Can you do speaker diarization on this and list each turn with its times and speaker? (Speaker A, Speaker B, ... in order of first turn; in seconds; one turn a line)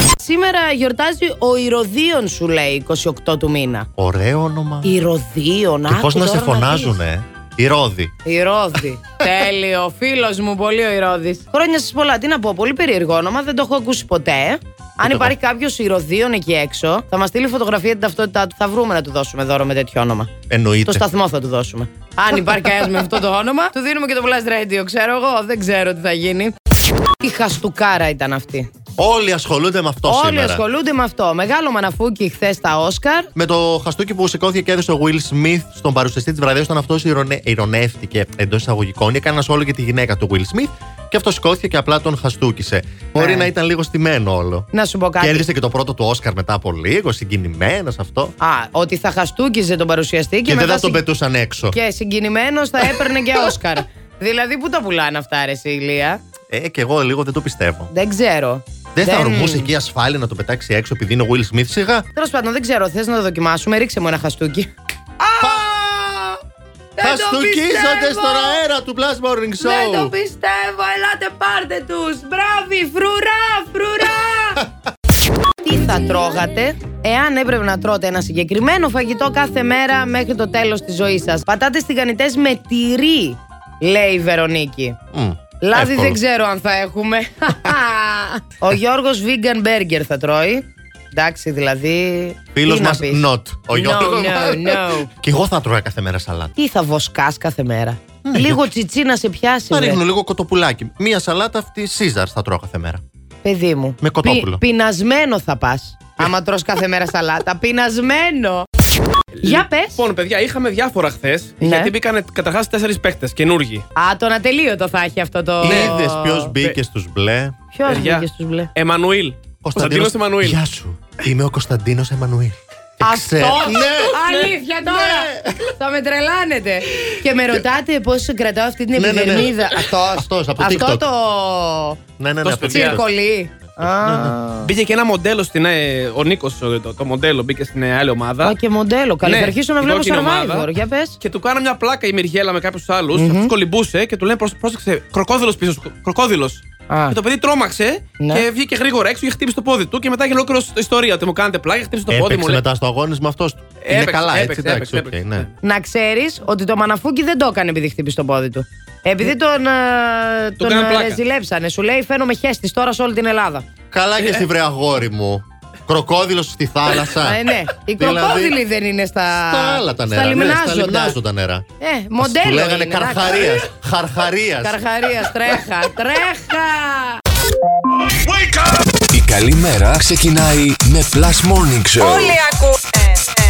Speaker A: 0.2-3.9
Speaker B: 4.0-4.9
Speaker A: 4.8-7.0
Speaker B: 5.9-8.1
Speaker A: 8.2-20.3
Speaker B: 15.0-15.3
Speaker B: 20.5-21.0
Speaker A: 20.9-26.5
Speaker A: 27.2-28.7
Speaker B: 29.0-30.6
Speaker A: 30.1-33.3
Speaker B: 33.3-44.7
Speaker A: 43.1-43.5
Speaker A: 44.7-45.5
Speaker B: 45.2-48.3
Speaker A: 48.4-51.0
Speaker B: 50.5-51.8
Speaker A: 51.7-56.2
Speaker B: 56.5-57.9
Speaker A: 57.9-59.7
Speaker B: 58.9-62.1
Speaker A: 62.1-66.4
Speaker B: 65.4-65.7
Speaker A: 67.0-68.6
Speaker B: 67.0-70.1
Speaker A: 69.6-74.6
Speaker A: 75.6-85.0
Speaker B: 85.1-86.2
Speaker A: 85.6-95.1
Speaker B: 92.5-96.5
Speaker A: 96.5-100.0
Speaker B: 98.2-98.6
Speaker B: 99.7-103.0
Speaker A: 103.4-108.7
Speaker B: 104.0-104.6
Speaker C: 109.4-113.8
Speaker A: 109.4-110.0
Speaker A: 111.6-111.9
Speaker A: 113.9-116.5
Speaker B: 115.6-117.6
Speaker C: 115.6-115.9
Speaker A: 117.7-118.7
Speaker C: 117.8-120.6
Speaker B: 119.6-124.2
Speaker A: 123.0-132.0
Speaker B: 124.8-125.7
Speaker B: 128.9-131.0
Speaker B: 132.2-133.1
Speaker C: 132.4-133.0
Speaker A: 132.7-134.7
Speaker B: 133.8-134.4
Speaker C: 134.6-138.6
Speaker A: 138.4-141.2
Speaker C: 139.2-140.7
Speaker C: 141.2-152.6
Speaker A: 143.1-143.5
Speaker A: 146.9-147.2
Speaker A: 148.2-148.4
Speaker B: 152.1-155.5
Speaker C: 153.8-155.5
Speaker A: 155.6-163.6
Speaker C: 160.6-161.2
Speaker B: 163.9-167.4
Speaker A: 167.2-171.2
Speaker B: 168.0-168.6
Speaker B: 169.4-171.7
Speaker A: 171.8-173.5
Speaker B: 172.2-174.8
Speaker A: 174.6-177.2
Speaker D: 179.1-182.4
Speaker A: 182.1-182.5